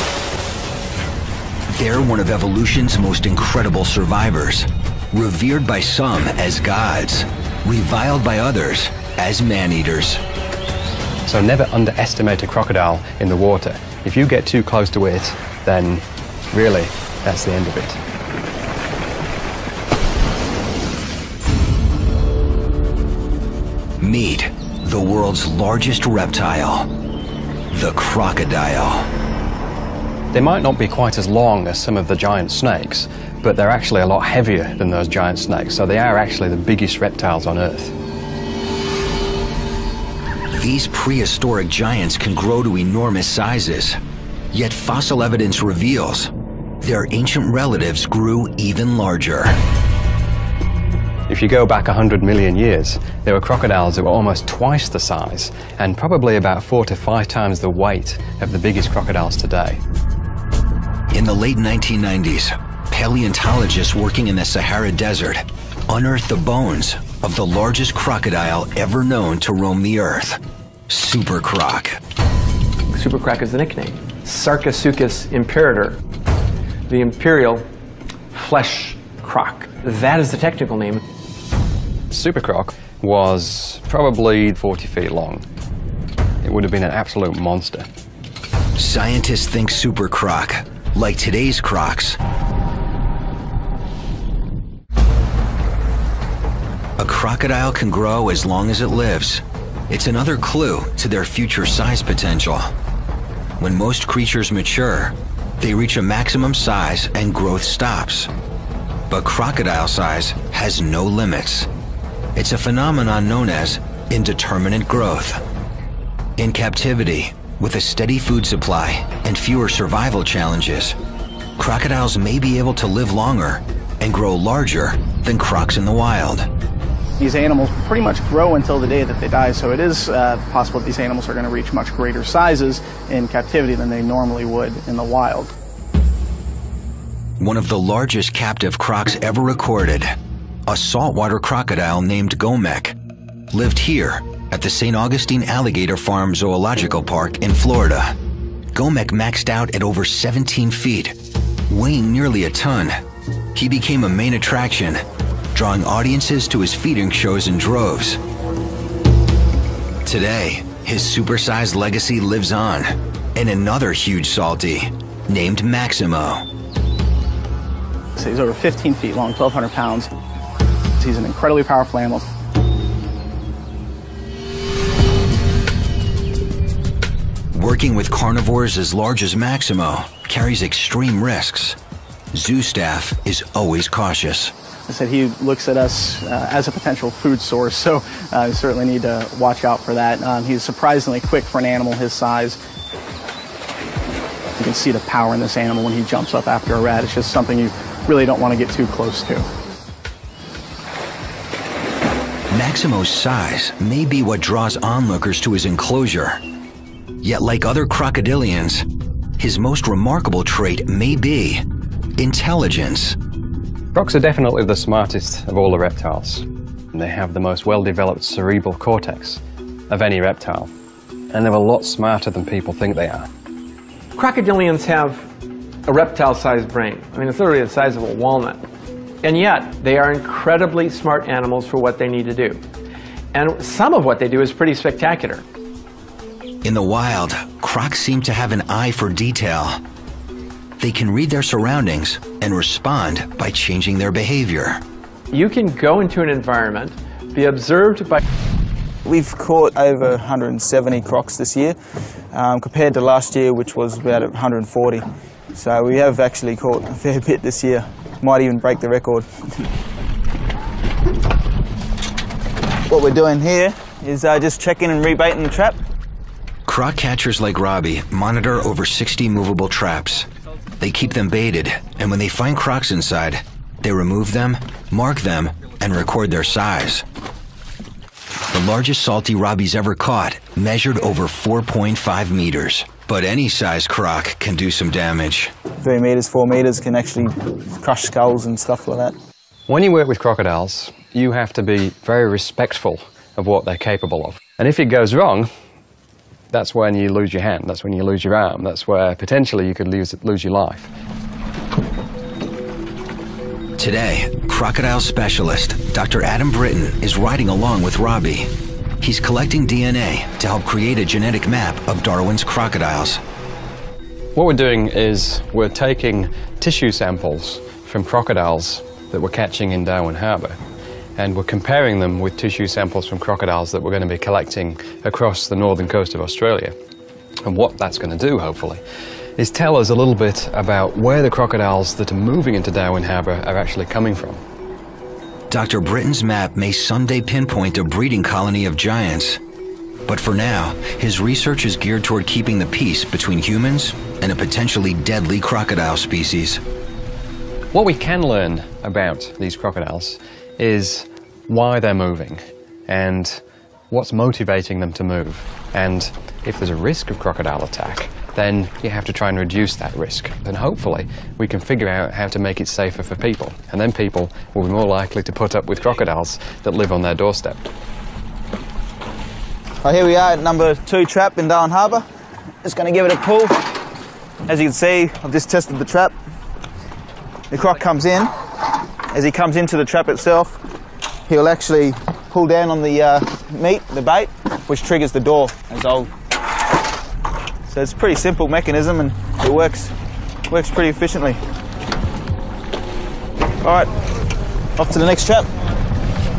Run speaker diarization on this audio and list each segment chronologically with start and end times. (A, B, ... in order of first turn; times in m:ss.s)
0:01.7-0:10.2 A
0:11.2-0:18.0 B
0:24.0-0:26.9 A
0:27.7-0:29.1 A
0:30.3-0:37.9 B
0:40.5-0:44.0 A
0:44.5-0:49.6 A
0:51.3-0:59.8 B
1:01.1-1:12.0 A
1:12.9-1:16.0 C
1:16.9-1:17.6 C
1:18.3-1:21.0 C
1:22.1-1:25.4 B
1:26.4-1:27.9 B
1:28.8-1:32.2 A
1:37.0-1:42.7 A
1:43.6-1:48.3 A
1:49.1-1:51.7 A
1:52.4-1:55.4 A
1:56.4-2:01.0 A
2:01.6-2:06.5 A
2:07.2-2:15.5 D
2:17.4-2:20.1 A
2:20.7-2:23.0 A
2:23.5-2:28.1 A
2:28.7-2:31.2 A
2:31.7-2:33.0 A
2:33.5-2:38.2 A
2:40.0-2:46.4 A
2:48.2-2:50.1 D
2:51.0-2:52.3 D
2:57.5-3:01.8 A
3:02.3-3:04.5 A
3:04.9-3:12.6 D
3:14.6-3:19.5 D
3:22.5-3:26.4 A
3:27.2-3:28.9 A
3:29.4-3:31.6 A
3:32.2-3:33.2 A
3:33.9-3:40.7 B
3:41.3-3:43.3 B
3:44.1-3:45.3 C
3:45.9-3:48.7 C
3:49.2-3:52.6 C
3:53.3-3:55.4 C
3:56.6-3:59.8 A
4:00.8-4:04.8 A
4:05.3-4:08.2 C
4:09.0-4:11.8 E
4:12.3-4:19.7 E
4:22.9-4:25.8 E
4:26.7-4:30.3 A
4:30.8-4:37.0 A
4:38.5-4:45.5 A
4:45.8-4:49.1 E
4:49.7-4:55.5 B
4:56.5-5:00.9 B
5:03.8-5:13.2 A
5:14.3-5:20.6 B
5:21.2-5:26.7 B
5:27.4-5:28.8 B
5:29.4-5:34.4 B
5:35.5-5:39.4 A
5:40.0-5:46.6 A
5:47.7-6:07.6 B
6:09.8-6:12.0 E
6:12.6-6:13.7 E
6:14.5-6:16.1 E
6:17.5-6:18.3 E
6:19.1-6:20.6 E
6:21.3-6:26.1 E
6:27.7-6:29.9 E
6:30.5-6:31.4 E
6:33.6-6:33.9 E
6:34.8-6:35.5 E